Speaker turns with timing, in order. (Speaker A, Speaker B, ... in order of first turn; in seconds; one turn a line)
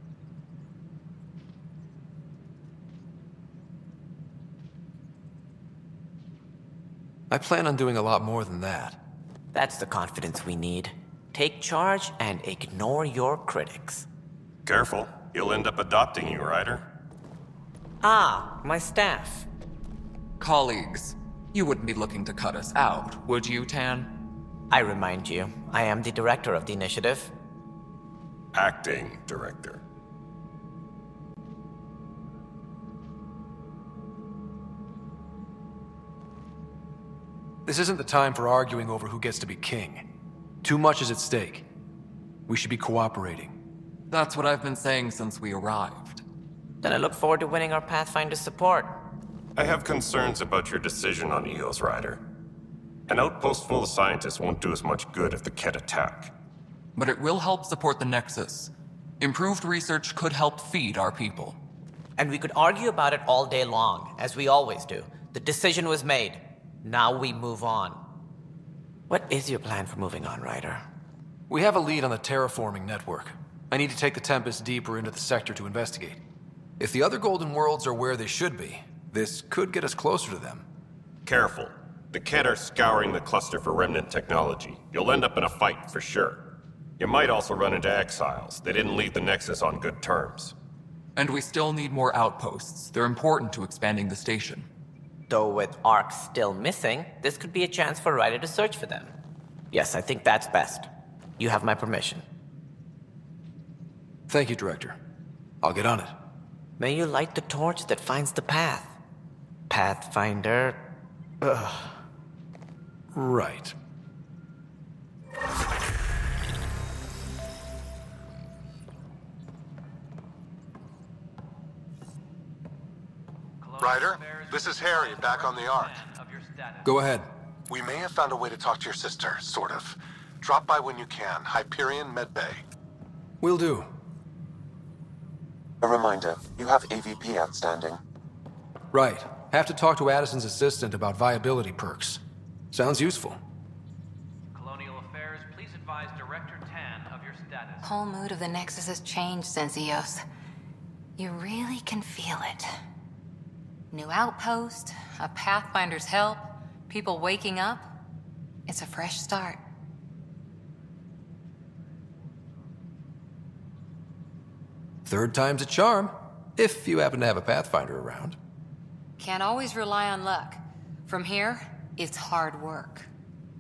Speaker A: 7.3-9.0
Speaker B: 9.5-14.1
Speaker C: 14.7-16.8
Speaker B: 18.0-19.5
Speaker D: 20.4-24.1
Speaker B: 24.7-27.3
Speaker C: 28.5-29.8
Speaker A: 37.7-40.0
Speaker A: 40.6-41.7
Speaker A: 42.5-43.5
Speaker D: 44.1-46.2
Speaker B: 46.8-48.9
Speaker C: 49.6-52.2
Speaker C: 53.1-56.3
Speaker D: 57.0-61.6
Speaker B: 62.2-68.0
Speaker B: 69.1-70.8
Speaker A: 71.5-76.2
Speaker A: 76.8-80.7
Speaker C: 81.3-86.4
Speaker C: 87.0-90.5
Speaker D: 91.2-94.7
Speaker B: 95.3-99.1
Speaker B: 99.7-102.2
Speaker A: 104.3-105.0
Speaker A: 105.6-106.2
Speaker B: 106.8-109.0
Speaker B: 109.7-110.8
Speaker B: 111.4-112.0
Speaker A: 113.1-113.8
Speaker E: 123.6-127.0
Speaker F: 123.8-126.0
Speaker A: 126.8-127.3
Speaker F: 127.7-132.6
Speaker A: 133.4-133.9
Speaker G: 135.8-138.0
Speaker A: 138.9-142.2
Speaker A: 142.7-143.4
Speaker E: 144.5-147.9
Speaker H: 147.8-150.2
Speaker H: 151.2-152.7
Speaker H: 153.9-157.9
Speaker H: 158.7-159.6
Speaker A: 165.1-168.4
Speaker H: 169.2-173.1